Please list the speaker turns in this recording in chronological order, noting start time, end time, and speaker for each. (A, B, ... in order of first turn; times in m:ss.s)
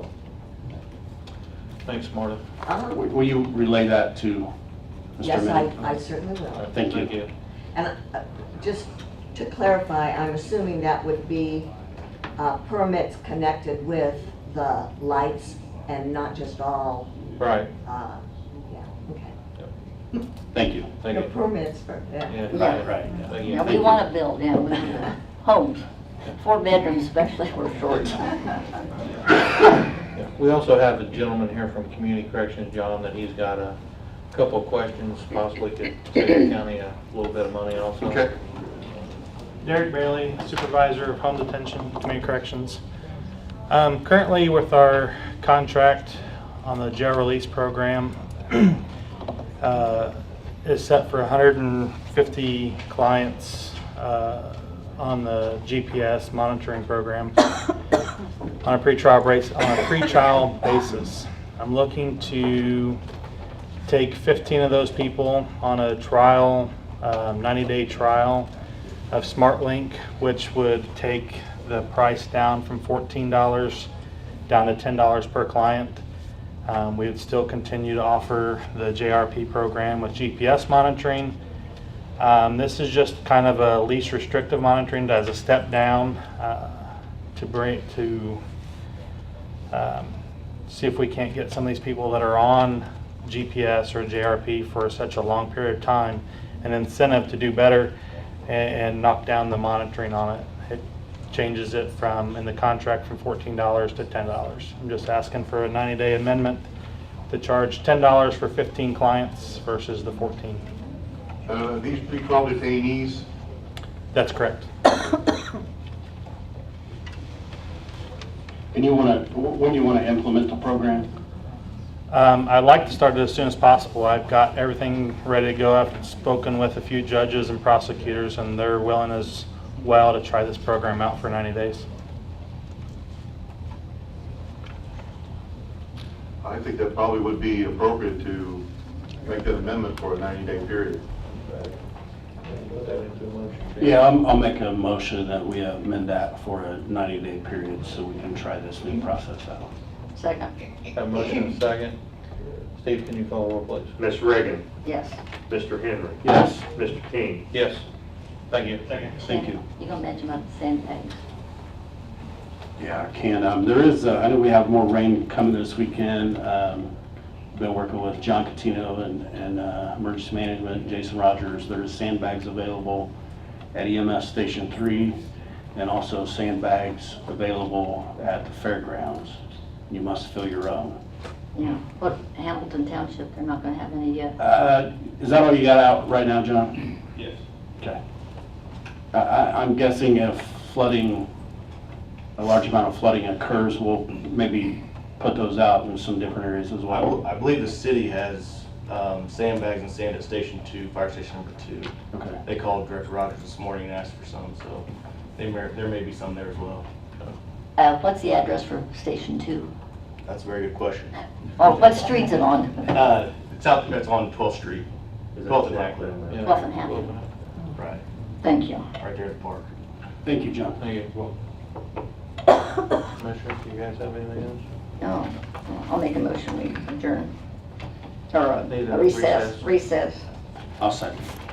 0:01.8-0:02.4 A
0:02.6-0:03.0 B
0:02.9-0:04.5 C
0:05.2-0:05.8 C
0:05.2-0:06.7 B
0:06.6-0:07.3 A
0:06.7-0:07.1 C
0:07.7-0:11.7 B
0:12.4-0:17.1 B
0:17.4-0:17.7 A
0:17.8-0:19.3 B
0:20.5-0:20.9 C
0:21.0-0:21.3 A
0:21.1-0:22.5 B
0:22.3-0:24.0 A
0:22.5-0:22.8 D
0:22.5-0:24.0 C
0:23.4-0:25.8 D
0:26.4-0:28.3 D
0:30.2-0:33.8 A
0:34.3-0:38.2 A
0:39.6-0:42.8 E
0:43.7-0:48.8 E
0:49.6-0:57.4 E
0:58.6-1:03.0 E
1:03.8-1:08.5 E
1:09.1-1:13.9 E
1:14.5-1:16.0 E
1:16.6-1:21.4 E
1:22.2-1:28.4 E
1:29.7-1:30.1 E
1:30.7-1:37.9 E
1:38.5-1:46.6 E
1:47.3-1:50.6 E
1:51.5-1:53.2 F
1:54.1-1:54.7 E
1:58.7-2:01.1 C
2:02.1-2:11.8 E
2:16.4-2:18.6 F
2:19.2-2:21.0 F
2:22.5-2:24.0 A
2:23.8-2:29.7 C
2:30.1-2:30.5 D
2:30.9-2:32.0 A
2:32.8-2:33.9 A
2:34.0-2:34.6 G
2:34.8-2:35.2 D
2:35.5-2:37.4 G
2:36.2-2:36.6 C
2:37.5-2:37.8 A
2:38.5-2:38.8 A
2:39.2-2:39.6 C
2:39.2-2:41.2 D
2:42.8-2:46.9 C
2:47.5-2:53.1 C
2:53.7-2:55.2 C
2:55.7-3:01.0 C
3:01.5-3:04.3 D
3:04.4-3:06.9 C
3:09.1-3:11.3 C
3:12.4-3:17.2 C
3:16.9-3:21.9 H
3:22.1-3:22.4 C
3:22.4-3:27.3 H
3:27.8-3:29.7 D
3:30.2-3:31.1 H
3:31.6-3:32.8 D
3:32.9-3:34.9 H
3:35.4-3:36.2 H
3:36.3-3:37.3 A
3:36.4-3:37.1 D
3:37.7-3:38.0 H
3:38.4-3:38.8 D
3:39.0-3:39.7 H
3:40.2-3:40.8 C
3:40.8-3:41.3 A
3:43.2-3:44.6 A
3:45.0-3:47.3 D
3:48.3-3:50.2 D
3:48.7-3:49.7 A
3:50.8-3:51.2 C